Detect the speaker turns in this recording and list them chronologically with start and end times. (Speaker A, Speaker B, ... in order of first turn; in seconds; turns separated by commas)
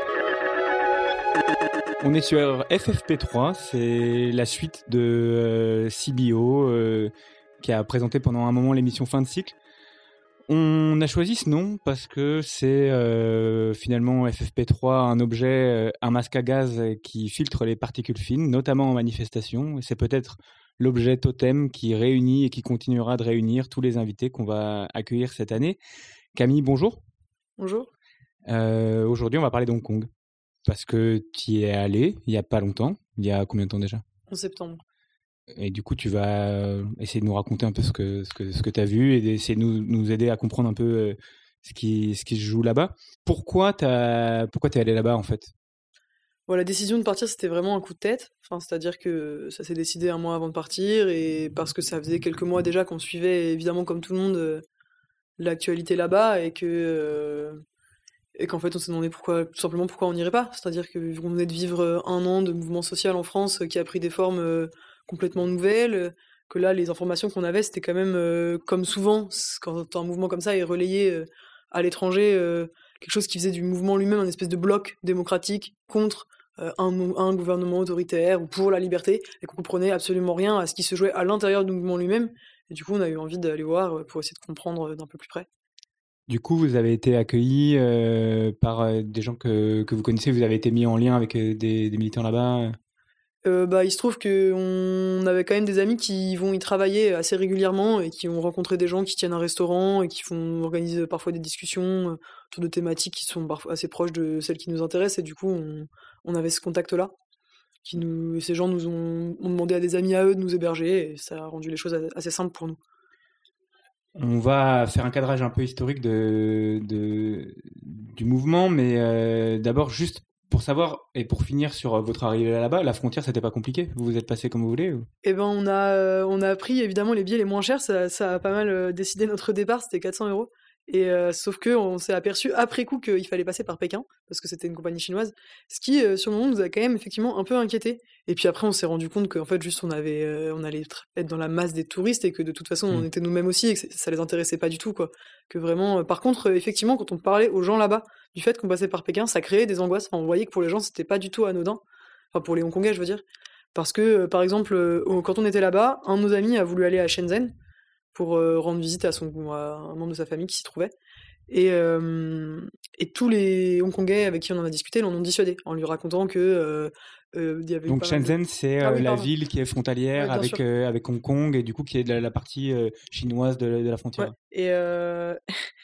Speaker A: 2.0-9.5, Speaker A: 10.5-25.8, Speaker A: 26.3-27.0, Speaker B: 27.6-27.9, Speaker A: 28.5-30.1, Speaker A: 30.6-34.0, Speaker B: 34.3-34.8, Speaker A: 35.5-45.5, Speaker B: 46.5-54.6, Speaker B: 55.4-57.6, Speaker B: 58.4-85.5, Speaker A: 86.3-92.8, Speaker B: 93.4-107.1, Speaker B: 107.8-112.8, Speaker A: 114.2-125.1, Speaker B: 125.2-151.8, Speaker B: 152.3-153.2, Speaker B: 153.7-157.5, Speaker B: 158.1-160.9, Speaker B: 161.5-169.3, Speaker A: 167.9-174.3, Speaker B: 170.2-170.6, Speaker B: 174.2-175.4